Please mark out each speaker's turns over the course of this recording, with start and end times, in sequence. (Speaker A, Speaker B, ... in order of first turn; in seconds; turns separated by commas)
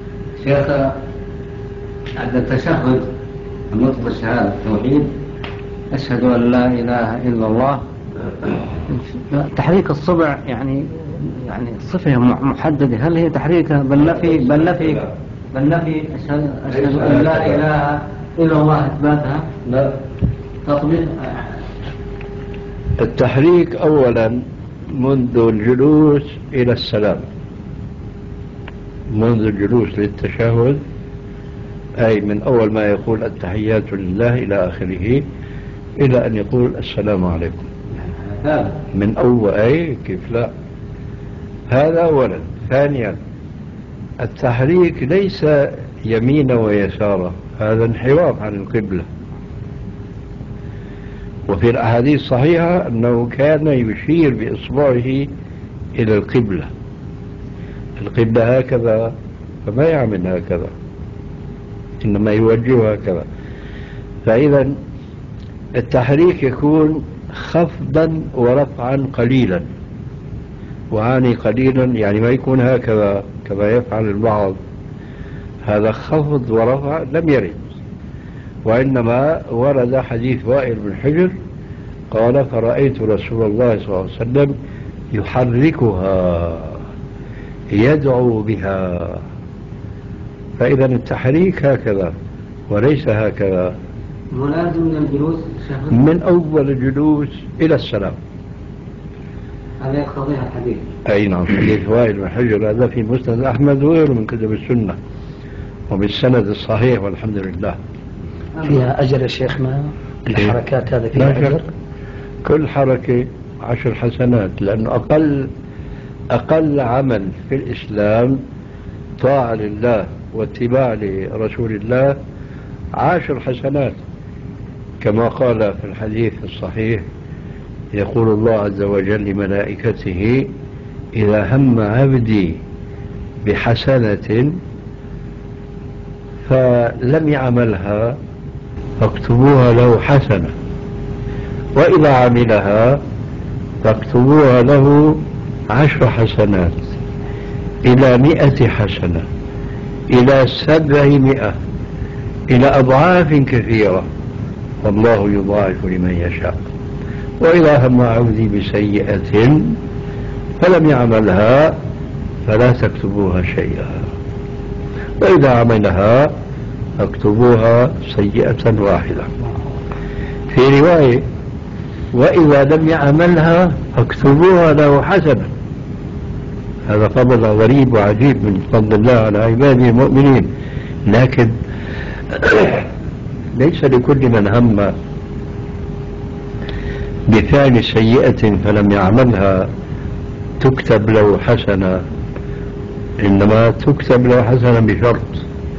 Speaker A: 0.4-0.9, Speaker A: 2.2-3.1, Speaker A: 3.7-5.1, Speaker A: 5.9-7.8, Speaker A: 8.9-19.5, Speaker B: 14.0-15.1, Speaker B: 16.7-17.6, Speaker B: 19.6-19.9, Speaker A: 20.6-21.5, Speaker B: 23.0-24.4, Speaker B: 24.9-27.2, Speaker B: 29.1-30.8, Speaker B: 32.0-35.2, Speaker B: 36.0-37.6, Speaker A: 38.0-38.8, Speaker B: 38.9-40.5, Speaker B: 41.7-43.2, Speaker B: 44.2-49.0, Speaker B: 51.5-55.3, Speaker B: 56.0-56.7, Speaker B: 58.0-59.1, Speaker B: 59.6-60.7, Speaker B: 62.0-63.2, Speaker B: 64.2-64.8, Speaker B: 65.7-69.7, Speaker B: 70.9-74.6, Speaker B: 75.7-77.8, Speaker B: 78.6-81.3, Speaker B: 82.1-84.5, Speaker B: 85.1-86.8, Speaker B: 87.7-89.2, Speaker B: 90.6-92.1, Speaker B: 92.7-93.7, Speaker A: 94.3-96.0, Speaker B: 95.9-98.2, Speaker A: 99.8-100.8, Speaker B: 101.0-105.0, Speaker B: 105.9-107.8, Speaker C: 108.6-111.6, Speaker B: 111.1-111.6, Speaker B: 112.4-115.5, Speaker B: 116.3-118.4, Speaker B: 119.2-122.1, Speaker B: 123.0-124.0, Speaker B: 125.0-127.0, Speaker B: 127.9-130.5, Speaker B: 131.2-132.6, Speaker B: 133.4-134.5, Speaker B: 136.4-138.2, Speaker B: 139.0-140.5, Speaker B: 141.8-143.0, Speaker B: 143.8-146.8, Speaker B: 147.8-149.2, Speaker B: 150.1-151.5, Speaker B: 152.5-154.1, Speaker B: 154.8-156.6, Speaker B: 157.4-159.8, Speaker B: 160.6-161.8, Speaker B: 162.5-164.0, Speaker B: 165.2-166.3, Speaker B: 167.0-169.3, Speaker B: 170.5-171.2, Speaker B: 172.1-175.5, Speaker B: 176.9-180.5, Speaker B: 181.1-181.5, Speaker B: 182.3-182.9, Speaker B: 183.6-184.9, Speaker B: 187.3-189.7, Speaker B: 190.6-192.0, Speaker B: 193.2-195.4